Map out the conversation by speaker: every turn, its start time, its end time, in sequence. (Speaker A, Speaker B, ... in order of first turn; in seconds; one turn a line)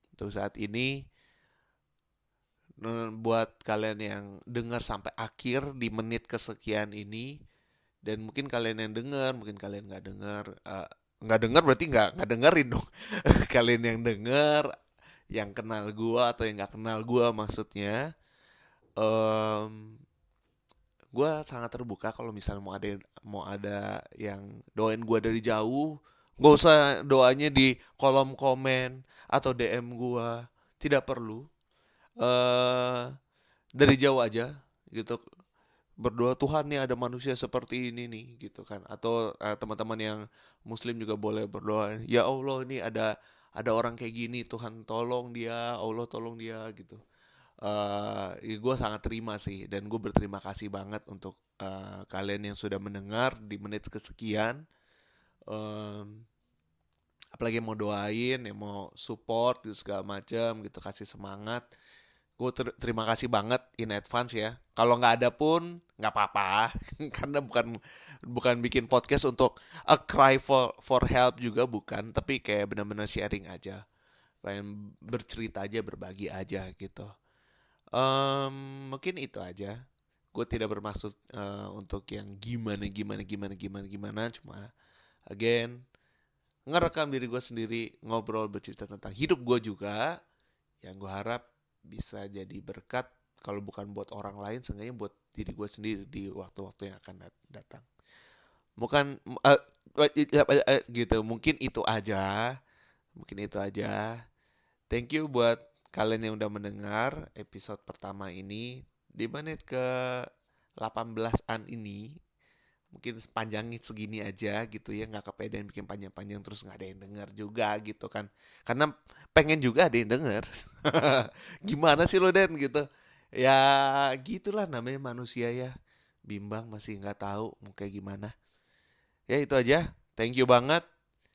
Speaker A: 0.1-1.0
Speaker A: 2.8-7.3
Speaker A: 8.0-14.7
Speaker A: 15.3-18.0
Speaker A: 19.0-20.0
Speaker A: 21.1-31.4
Speaker A: 32.2-33.1
Speaker A: 33.8-35.2
Speaker A: 36.0-47.0
Speaker A: 47.6-54.6
Speaker A: 55.5-56.2
Speaker A: 57.4-61.6
Speaker A: 62.4-73.8
Speaker A: 74.4-77.1
Speaker A: 78.0-79.7
Speaker A: 80.3-84.6
Speaker A: 85.3-85.8
Speaker A: 86.7-90.2
Speaker A: 90.8-97.8
Speaker A: 98.8-102.5
Speaker A: 103.2-104.2
Speaker A: 104.9-110.3
Speaker A: 110.8-112.2
Speaker A: 112.9-122.8
Speaker A: 123.4-125.7
Speaker A: 126.3-128.3
Speaker A: 129.3-130.8